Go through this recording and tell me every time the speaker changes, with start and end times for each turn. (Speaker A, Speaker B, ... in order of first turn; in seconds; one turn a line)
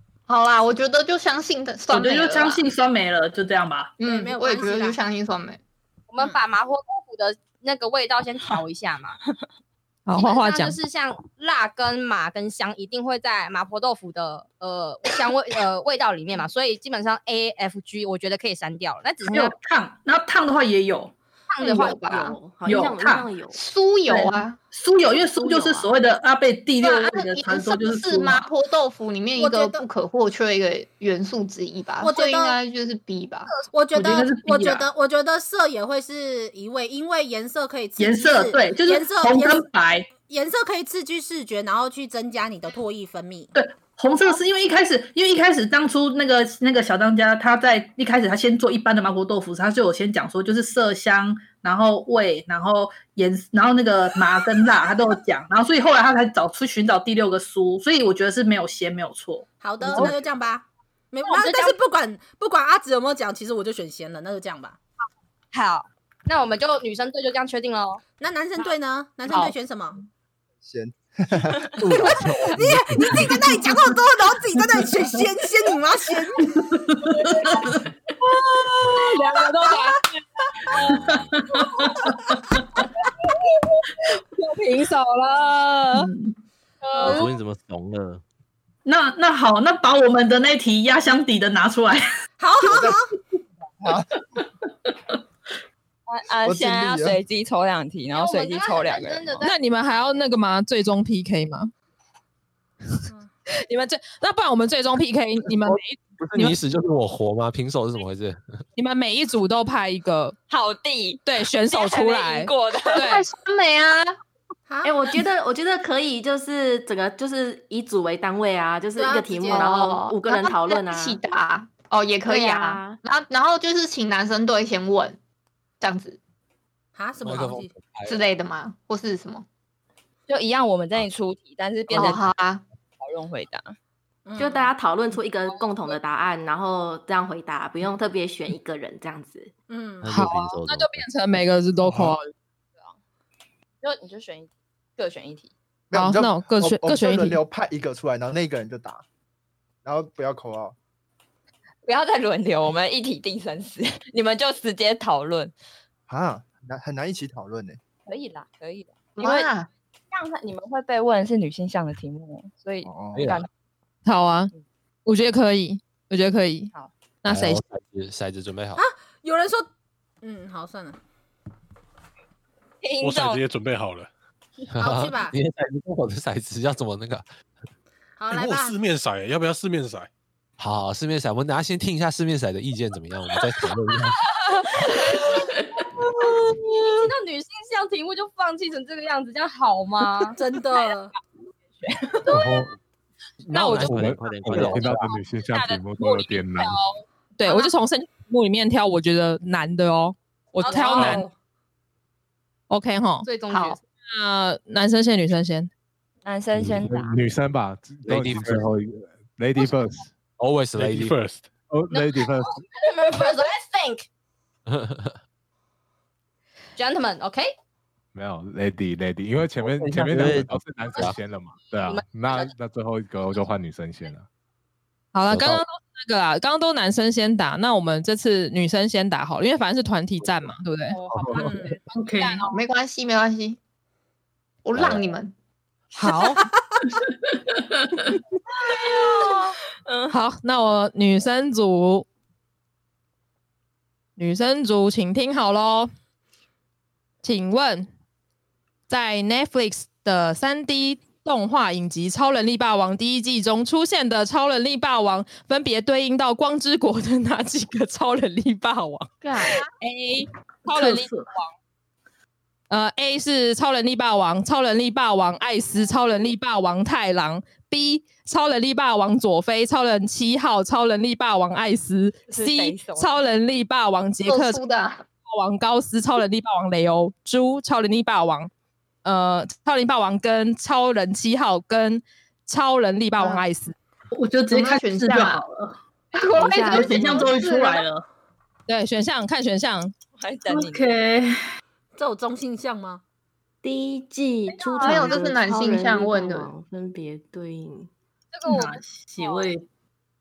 Speaker A: 0.3-2.6
Speaker B: 1.9-4.0
Speaker A: 4.0-5.6
Speaker C: 4.0-5.0
Speaker D: 6.1-9.2
Speaker E: 10.1-10.8
Speaker D: 10.2-19.5
Speaker B: 19.3-21.1
Speaker D: 21.5-22.0
Speaker A: 21.6-22.4
Speaker F: 22.1-23.6
Speaker B: 22.6-23.3
Speaker A: 23.5-24.6
Speaker B: 24.1-28.5
Speaker F: 25.4-25.9
Speaker A: 26.8-33.5
Speaker C: 29.4-29.8
Speaker C: 32.0-32.6
Speaker C: 33.7-43.5
Speaker B: 33.9-34.9
Speaker B: 38.0-40.1
Speaker B: 43.5-59.5
Speaker C: 59.6-64.8
Speaker D: 59.9-60.1
Speaker D: 61.2-61.8
Speaker D: 65.5-68.0
Speaker C: 68.2-70.0
Speaker D: 69.3-69.5
Speaker G: 70.6-72.3
Speaker C: 71.9-76.5
Speaker H: 72.6-72.9
Speaker B: 76.4-77.8
Speaker E: 78.4-80.0
Speaker I: 80.6-81.4
Speaker B: 81.3-82.6
Speaker E: 84.4-86.1
Speaker B: 85.9-86.3
Speaker E: 86.9-87.2
Speaker D: 86.9-87.3
Speaker I: 87.0-88.2
Speaker B: 88.8-92.1
Speaker C: 92.4-93.1
Speaker G: 92.6-93.2
Speaker G: 93.8-94.1
Speaker J: 96.1-99.4
Speaker G: 96.4-97.2
Speaker D: 98.1-99.5
Speaker E: 99.4-101.7
Speaker E: 103.6-106.6
Speaker H: 105.6-108.4
Speaker E: 108.8-110.4
Speaker J: 110.5-113.1
Speaker E: 111.2-113.2
Speaker A: 112.9-114.2
Speaker C: 114.7-115.0
Speaker F: 114.8-121.2
Speaker C: 119.0-119.7
Speaker A: 119.5-125.2
Speaker F: 122.3-123.0
Speaker A: 125.8-126.2
Speaker C: 126.9-127.7
Speaker H: 127.2-128.2
Speaker A: 128.1-129.4
Speaker J: 130.3-132.3
Speaker A: 131.9-132.6
Speaker J: 133.0-133.7
Speaker C: 134.3-134.7
Speaker F: 134.4-139.5
Speaker C: 139.7-140.1
Speaker I: 140.0-141.1
Speaker E: 140.1-142.2
Speaker J: 143.8-145.5
Speaker G: 145.9-149.0
Speaker E: 145.9-147.4
Speaker G: 149.8-150.7
Speaker J: 151.9-155.5
Speaker G: 156.1-157.8
Speaker J: 158.1-159.5
Speaker A: 159.2-159.7
Speaker J: 160.1-163.5
Speaker G: 162.8-163.3
Speaker H: 163.1-163.4
Speaker E: 164.1-164.5
Speaker E: 165.1-166.7
Speaker E: 167.2-167.6
Speaker H: 167.3-168.8
Speaker C: 168.8-169.7
Speaker C: 170.2-171.0
Speaker J: 172.8-173.4
Speaker K: 173.0-174.1
Speaker H: 174.7-177.3
Speaker C: 174.8-175.4
Speaker C: 178.2-178.8
Speaker K: 178.3-180.1
Speaker H: 180.6-184.2
Speaker D: 186.8-190.4
Speaker C: 190.4-191.1
Speaker L: 192.3-192.7
Speaker L: 193.4-196.8
Speaker E: 193.5-193.9
Speaker I: 193.6-195.1
Speaker H: 193.9-195.1
Speaker E: 195.6-201.3
Speaker D: 200.6-201.2
Speaker C: 200.7-201.3
Speaker E: 202.7-203.3
Speaker D: 203.2-203.8
Speaker A: 203.5-203.8
Speaker E: 204.1-205.7
Speaker J: 206.2-207.2
Speaker L: 206.6-210.1
Speaker H: 208.1-208.7
Speaker H: 210.4-211.2
Speaker K: 210.8-211.5
Speaker L: 211.7-212.6
Speaker D: 212.7-214.1
Speaker H: 214.7-215.2
Speaker D: 216.8-217.5
Speaker L: 218.1-224.3
Speaker H: 219.6-220.4
Speaker I: 220.0-220.5
Speaker D: 221.9-222.5
Speaker E: 225.1-232.5
Speaker L: 225.3-225.6
Speaker D: 230.9-231.7
Speaker L: 231.1-231.5
Speaker B: 231.9-232.4
Speaker A: 232.5-233.6
Speaker A: 234.6-235.3
Speaker E: 235.9-236.4
Speaker J: 238.7-240.1
Speaker E: 240.1-242.1
Speaker E: 244.2-245.9
Speaker E: 247.2-247.9
Speaker E: 248.9-261.5
Speaker B: 260.7-261.3
Speaker E: 262.7-274.6
Speaker J: 272.3-273.1
Speaker A: 274.3-275.1
Speaker E: 275.3-278.5
Speaker E: 279.1-283.7
Speaker A: 283.2-283.4
Speaker B: 284.1-285.8
Speaker A: 284.5-285.4
Speaker A: 286.1-287.8
Speaker F: 286.3-287.4
Speaker B: 286.6-288.1
Speaker E: 288.7-289.9
Speaker J: 290.2-290.8
Speaker B: 290.5-291.4
Speaker C: 291.9-293.0
Speaker F: 293.6-297.9
Speaker D: 294.6-295.1
Speaker A: 294.8-296.5
Speaker D: 298.3-299.5
Speaker B: 298.5-299.6